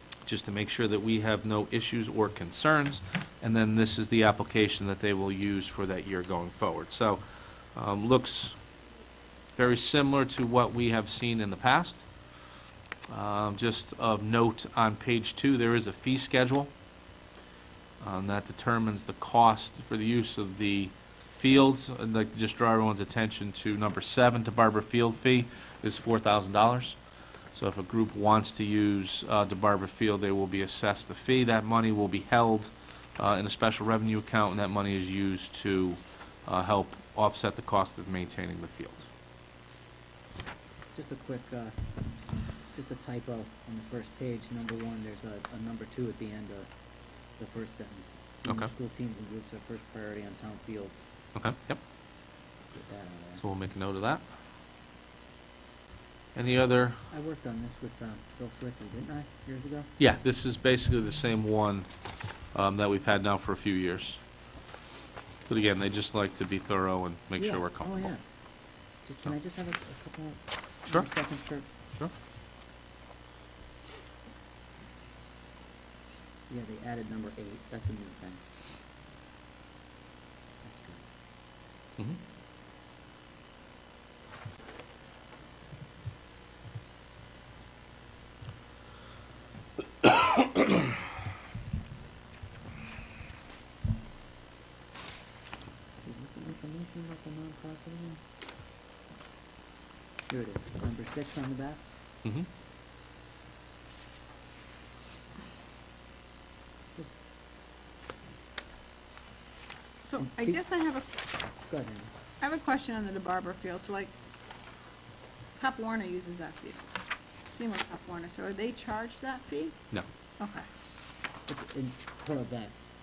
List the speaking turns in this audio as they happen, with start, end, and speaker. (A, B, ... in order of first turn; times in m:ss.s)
0:00.2-0:07.2 A
0:07.7-0:08.6 A
0:09.6-0:12.0 A
0:13.1-0:16.7 A
0:18.0-0:27.0 A
0:27.5-0:39.1 A
0:40.9-0:41.8 B
0:42.7-0:46.7 B
0:47.4-0:51.0 B
0:51.3-0:51.8 A
0:52.7-0:53.4 B
0:53.4-0:54.2 A
0:56.3-0:57.0 A
0:57.1-0:59.9 B
1:00.0-1:01.9 A
1:02.5-1:04.2 A
1:05.5-1:08.1 A
1:07.4-1:08.2 B
1:09.0-1:11.7 B
1:16.5-1:18.4 B
1:20.6-1:21.0 B
1:36.0-1:38.2 B
1:40.3-1:41.8 B
1:50.0-1:51.1 C
1:50.2-1:50.6 B
1:51.7-1:52.1 B
1:52.4-1:54.1 C
1:55.6-1:57.0 C
1:57.5-1:59.7 C
2:00.4-2:00.6 C
2:01.5-2:02.7 B